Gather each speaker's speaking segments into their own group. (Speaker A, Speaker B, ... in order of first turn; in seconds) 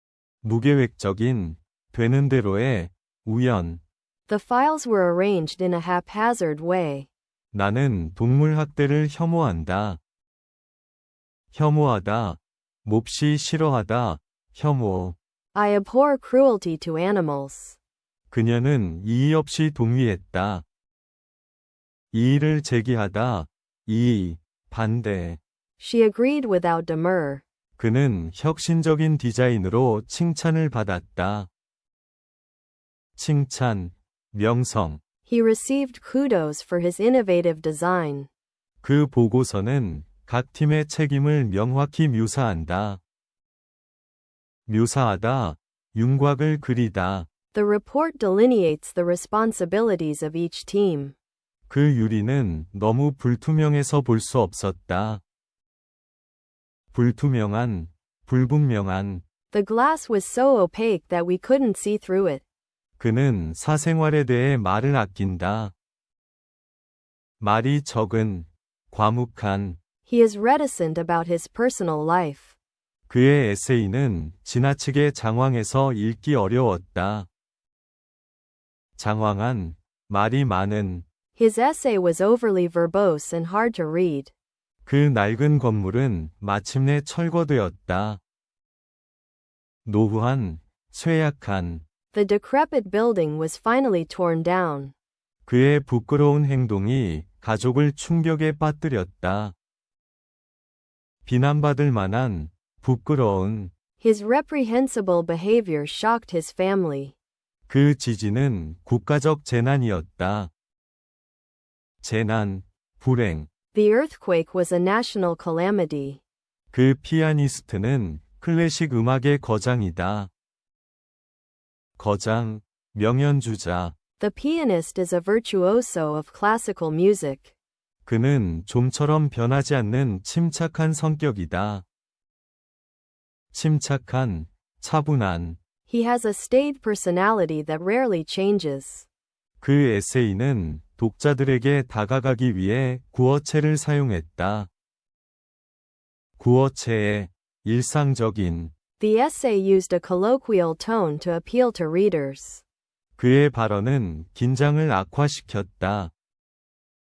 Speaker A: 0.4-3.8, 7.5-10.0, 11.5-15.2, 18.3-20.6, 22.1-25.4, 27.8-31.5, 33.2-35.0, 38.8-43.0, 44.7-47.3, 51.7-55.2, 56.9-59.2, 63.0-65.7, 67.4-69.8, 73.1-77.3, 79.0-81.0, 84.9-88.2, 89.8-91.8, 95.5-99.5, 101.3-103.7, 107.7-110.5, 112.0-113.5, 116.7-120.3, 122.0-124.0, 128.1-131.8, 133.5-135.6, 139.6-144.7, 146.4-148.7, 153.2-156.1
Speaker B: 4.3-7.1, 15.5-17.8, 25.8-27.4, 35.3-38.3, 47.5-51.1, 59.5-62.4, 70.1-72.6, 81.4-84.3, 92.1-94.9, 104.0-107.2, 113.7-116.2, 124.2-127.5, 135.9-139.1, 149.0-152.6